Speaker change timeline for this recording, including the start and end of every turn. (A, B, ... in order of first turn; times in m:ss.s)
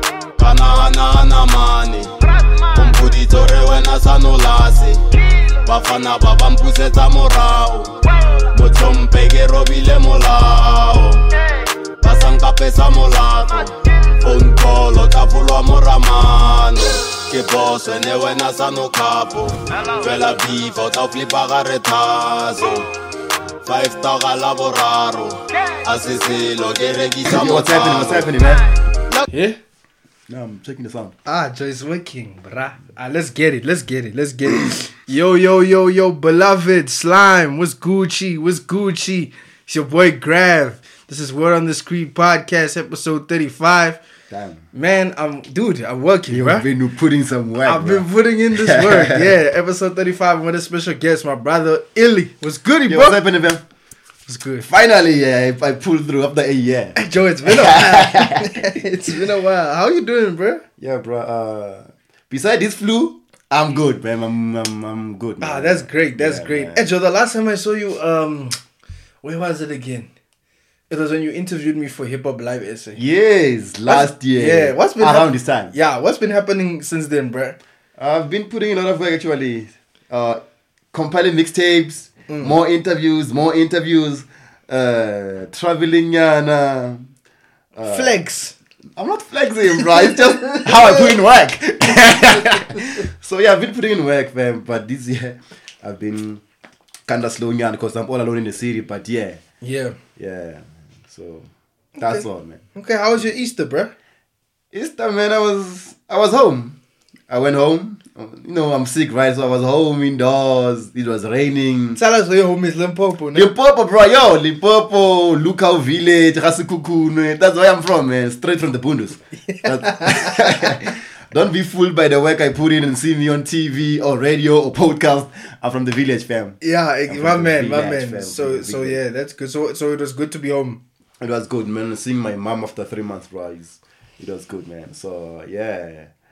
0:00.4-0:05.0 A
0:05.6-0:11.3 A
0:12.0-0:22.9 A
0:23.6-0:28.5 A
0:27.3-0:28.6 B
0:29.3-0:29.6 C
0:30.3-0:31.1 B
0:31.3-0:44.0 C
0:44.3-0:44.6 B
0:44.7-0:46.7 C
0:46.3-0:49.4 B
0:47.6-0:53.2 C
0:52.9-0:53.6 B
0:54.3-0:54.7 C
0:54.7-0:58.6 B
0:57.0-1:00.6 C
1:00.8-1:06.9 B
1:05.4-1:08.6 C
1:09.2-1:10.1 C
1:10.9-1:13.0 C
1:13.0-1:15.7 B
1:13.9-1:17.6 C
1:18.0-1:20.4 B
1:20.9-1:27.1 B
1:22.3-1:22.6 C
1:27.8-1:28.2 B
1:27.8-1:28.5 C
1:29.0-1:36.4 B
1:30.0-1:30.7 C
1:37.1-1:39.4 B
1:39.6-1:40.0 C
1:40.2-1:42.6 B
1:42.0-1:43.9 C
1:44.7-1:46.8 B
1:47.3-1:52.0 B
1:52.0-1:53.5 C
1:53.3-2:09.0 B
1:59.5-2:00.4 C
2:06.6-2:10.8 C
2:11.2-2:16.1 B